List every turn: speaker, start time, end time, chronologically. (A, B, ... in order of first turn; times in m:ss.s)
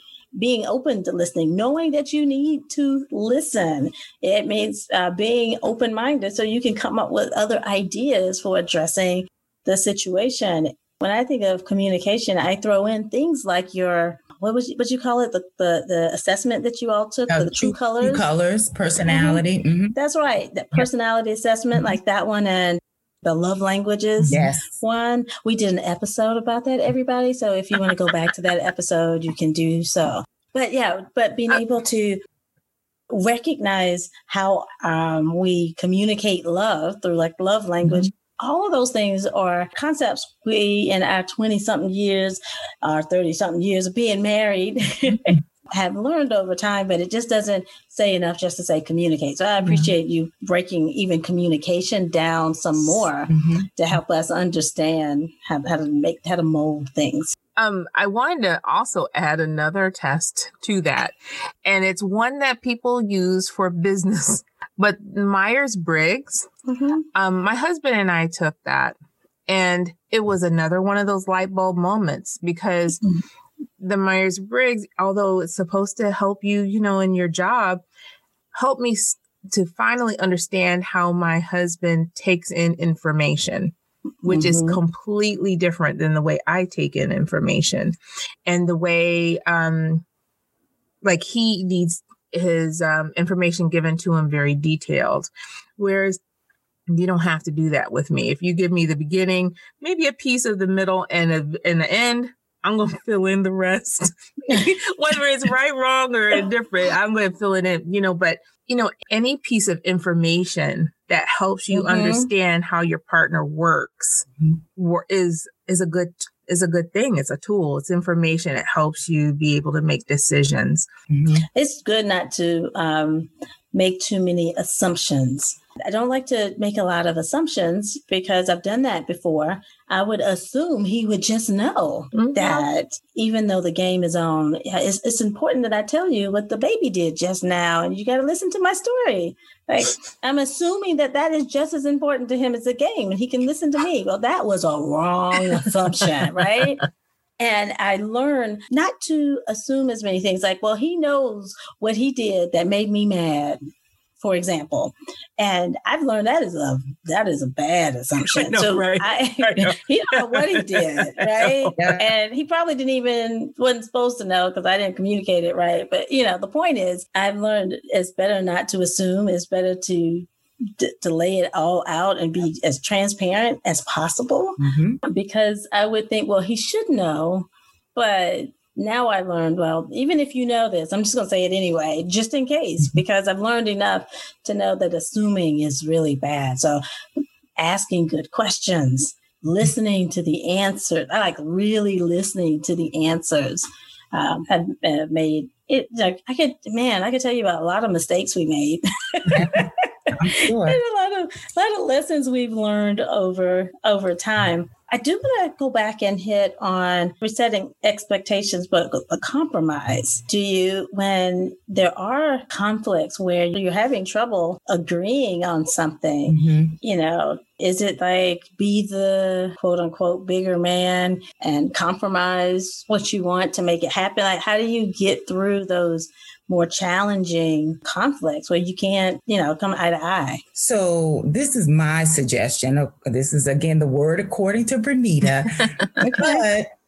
0:00.4-0:18.2 A
0:17.3-0:19.9 B
0:19.0-0:19.4 A
0:19.9-0:32.2 A
0:24.3-0:24.8 B
0:33.1-0:57.4 A
0:49.6-0:49.9 B
0:53.3-0:53.7 B
0:57.6-1:06.5 C
1:06.7-1:07.0 A
1:07.1-1:09.0 C
1:09.5-1:13.0 C
1:13.8-1:17.8 C
1:18.5-1:23.7 C
1:24.2-1:24.8 A
1:24.2-1:30.0 C
1:31.0-1:36.2 C
1:36.9-2:00.9 C
1:51.7-1:52.3 A
2:01.1-2:01.4 B
2:01.5-2:26.8 A
2:12.1-2:12.6 C
2:27.4-2:33.6 A
2:34.2-2:50.3 A
2:38.3-2:41.9 C
2:41.8-2:42.1 B
2:50.8-3:06.8 A
2:54.6-2:55.0 B
3:07.6-3:50.4 A
3:19.3-3:20.8 B
3:36.3-3:36.8 B
3:50.5-3:56.7 B
3:56.0-3:56.4 A